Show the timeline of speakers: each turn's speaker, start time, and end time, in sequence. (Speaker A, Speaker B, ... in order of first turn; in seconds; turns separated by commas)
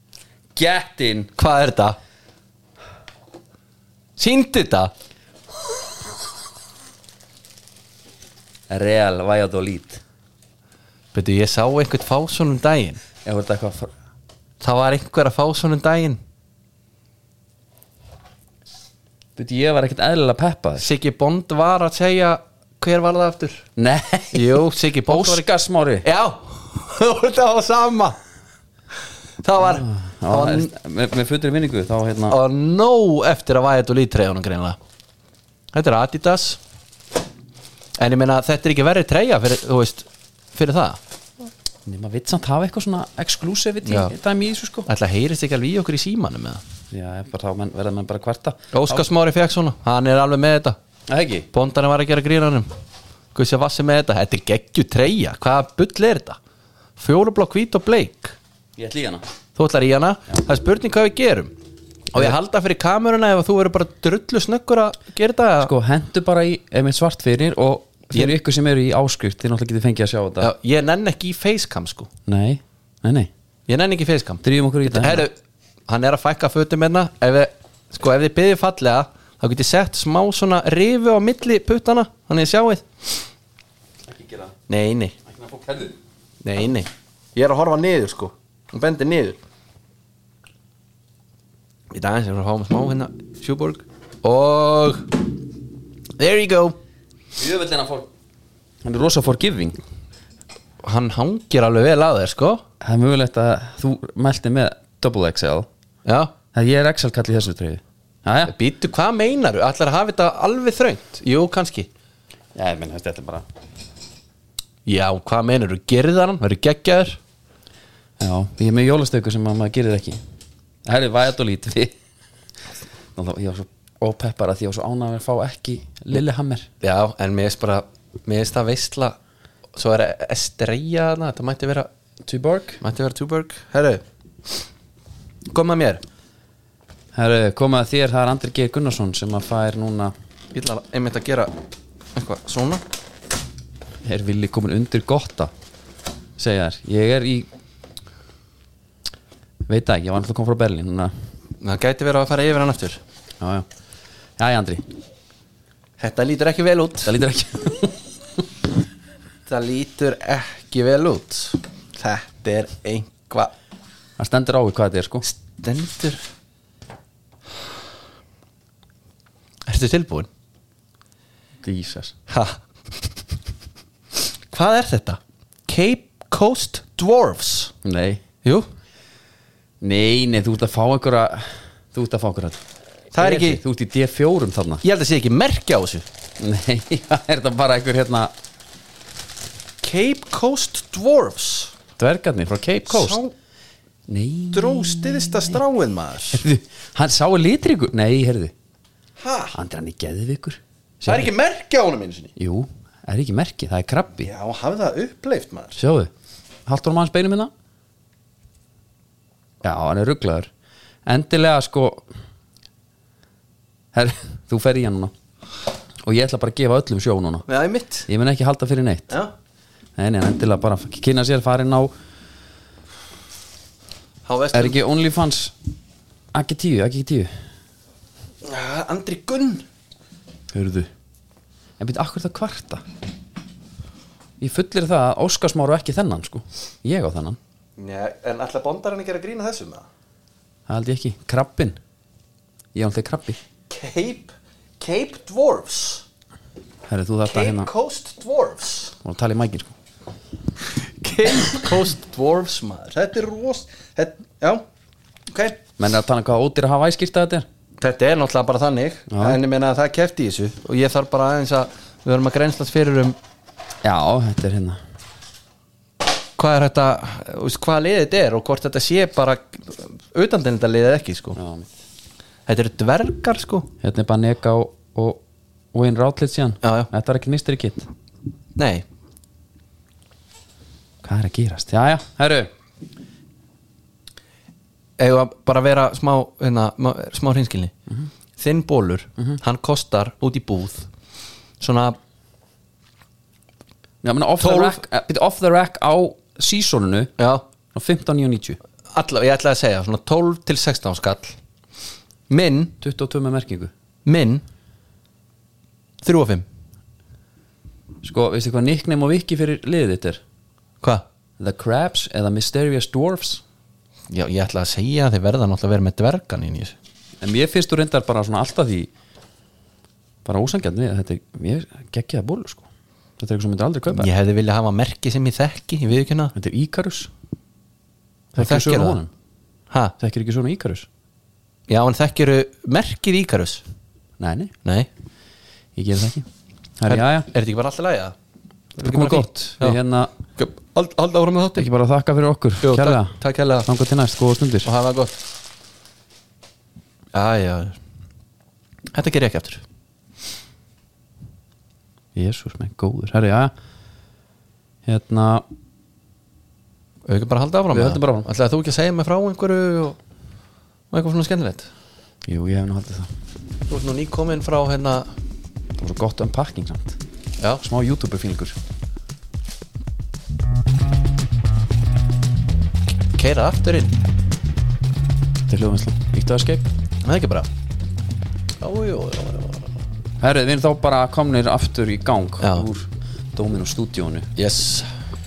Speaker A: 0.6-1.3, Speaker B: 1.4-2.0, Speaker B: 4.2-4.9, Speaker A: 8.7-10.0, Speaker B: 11.1-13.0, Speaker A: 13.2-13.9, Speaker B: 14.6-16.2, Speaker A: 19.4-20.9, Speaker B: 20.8-23.6, Speaker A: 23.8-26.0, Speaker B: 24.3-25.5, Speaker B: 26.0-28.2, Speaker B: 29.4-30.7, Speaker A: 29.6-32.4, Speaker B: 32.3-34.8, Speaker B: 35.7-36.6, Speaker B: 38.0-41.0, Speaker A: 41.9-44.9, Speaker B: 43.9-44.1, Speaker B: 44.9-46.6, Speaker A: 46.9-49.0, Speaker B: 48.7-50.8, Speaker A: 51.1-51.5, Speaker B: 51.5-52.7, Speaker B: 53.3-56.4, Speaker B: 57.0-58.4, Speaker A: 58.8-59.2, Speaker B: 59.5-61.5, Speaker B: 62.1-65.7, Speaker A: 65.6-70.5, Speaker B: 70.4-72.1, Speaker A: 72.2-73.3, Speaker B: 73.7-75.3, Speaker A: 74.4-75.3, Speaker B: 75.9-83.3, Speaker A: 84.1-84.5, Speaker B: 84.7-85.2, Speaker A: 85.2-86.0, Speaker B: 86.4-89.4, Speaker B: 91.9-95.2, Speaker B: 96.2-96.8, Speaker A: 97.3-98.1, Speaker A: 98.8-99.8, Speaker B: 100.8-102.6, Speaker A: 102.8-105.7, Speaker B: 106.0-106.3, Speaker A: 106.5-108.5, Speaker B: 108.5-111.9, Speaker A: 112.5-113.4, Speaker B: 114.8-117.2, Speaker A: 118.2-120.2, Speaker A: 120.8-121.9, Speaker A: 123.1-126.7, Speaker B: 126.8-129.2, Speaker B: 129.7-131.9, Speaker A: 132.2-132.8, Speaker B: 132.8-134.6, Speaker B: 135.5-136.0, Speaker A: 137.1-140.1, Speaker B: 140.5-141.6, Speaker B: 142.1-142.8, Speaker A: 144.0-145.5, Speaker A: 146.4-147.5, Speaker A: 149.7-151.1, Speaker B: 151.6-153.0, Speaker A: 153.4-153.7, Speaker A: 154.4-154.9, Speaker B: 156.0-157.1, Speaker A: 157.0-158.1, Speaker B: 159.5-163.5, Speaker A: 164.2-165.2, Speaker B: 165.2-166.2, Speaker B: 169.7-170.3, Speaker A: 171.6-172.1, Speaker B: 172.3-172.6, Speaker B: 174.5-177.7, Speaker A: 177.8-178.2, Speaker A: 179.8-182.6, Speaker B: 183.1-183.6, Speaker A: 183.2-184.8, Speaker B: 184.8-186.1, Speaker A: 186.4-188.3, Speaker B: 189.8-191.7, Speaker A: 192.0-193.2, Speaker B: 192.9-193.3, Speaker A: 194.1-195.6, Speaker B: 194.5-196.4, Speaker A: 196.3-198.5, Speaker B: 199.2-199.6, Speaker A: 199.5-201.3, Speaker B: 201.0-202.3, Speaker A: 202.4-204.3, Speaker B: 204.2-205.8, Speaker A: 205.8-206.1, Speaker A: 206.7-207.5, Speaker A: 209.6-210.5, Speaker A: 211.1-212.1, Speaker A: 213.9-215.1, Speaker A: 216.0-217.4, Speaker B: 217.5-218.1, Speaker A: 218.1-219.2, Speaker A: 219.9-221.9, Speaker B: 224.2-224.8, Speaker A: 224.5-225.5, Speaker A: 226.3-227.3, Speaker B: 228.4-229.7, Speaker A: 230.5-230.9, Speaker A: 231.8-232.8, Speaker A: 234.4-237.4, Speaker B: 237.8-239.8, Speaker A: 240.7-241.8, Speaker A: 242.7-243.4, Speaker B: 243.7-246.0, Speaker A: 246.9-247.7, Speaker B: 247.3-248.9, Speaker A: 249.0-249.7, Speaker B: 250.6-254.6, Speaker B: 255.3-255.6, Speaker A: 255.8-257.4, Speaker B: 257.8-263.2, Speaker A: 259.1-259.4, Speaker A: 263.8-264.8, Speaker B: 266.4-271.4, Speaker A: 271.3-271.7, Speaker B: 272.5-273.7, Speaker A: 273.8-275.2, Speaker A: 275.7-277.9, Speaker B: 276.6-276.9, Speaker B: 278.6-278.9, Speaker A: 281.0-282.5, Speaker B: 285.0-287.7, Speaker B: 288.4-290.9, Speaker B: 291.6-292.0, Speaker A: 294.0-297.1, Speaker B: 294.4-294.8, Speaker B: 297.2-297.4, Speaker A: 297.7-298.6, Speaker B: 298.9-301.4, Speaker B: 302.3-302.8, Speaker A: 302.8-303.7, Speaker B: 304.0-304.4, Speaker B: 306.0-306.4, Speaker A: 308.0-310.2, Speaker A: 311.4-313.4, Speaker B: 314.1-316.8, Speaker A: 317.2-318.9, Speaker A: 320.2-322.7, Speaker A: 323.2-324.1, Speaker B: 323.9-326.3, Speaker A: 326.3-327.1, Speaker B: 328.3-329.0, Speaker A: 328.4-329.1, Speaker B: 329.7-329.9, Speaker A: 330.0-330.9, Speaker B: 331.7-333.6, Speaker A: 334.2-334.5, Speaker B: 334.6-334.9, Speaker A: 335.8-336.3, Speaker A: 336.8-337.3, Speaker B: 336.9-338.1, Speaker B: 338.8-339.8, Speaker A: 338.8-340.1, Speaker B: 340.4-341.7, Speaker A: 341.6-344.7, Speaker B: 342.6-343.7, Speaker B: 344.6-345.2, Speaker B: 347.1-347.8, Speaker B: 348.9-349.6, Speaker A: 352.1-353.5, Speaker A: 354.9-355.4, Speaker B: 357.0-360.0, Speaker A: 357.7-358.3, Speaker B: 360.9-361.7, Speaker A: 362.3-363.1, Speaker B: 363.7-365.1, Speaker A: 365.8-367.0, Speaker A: 367.6-368.6, Speaker B: 373.1-374.0, Speaker A: 375.5-376.6, Speaker B: 377.0-377.5, Speaker B: 378.6-379.7, Speaker A: 380.2-384.3, Speaker B: 382.4-382.6, Speaker B: 384.4-384.9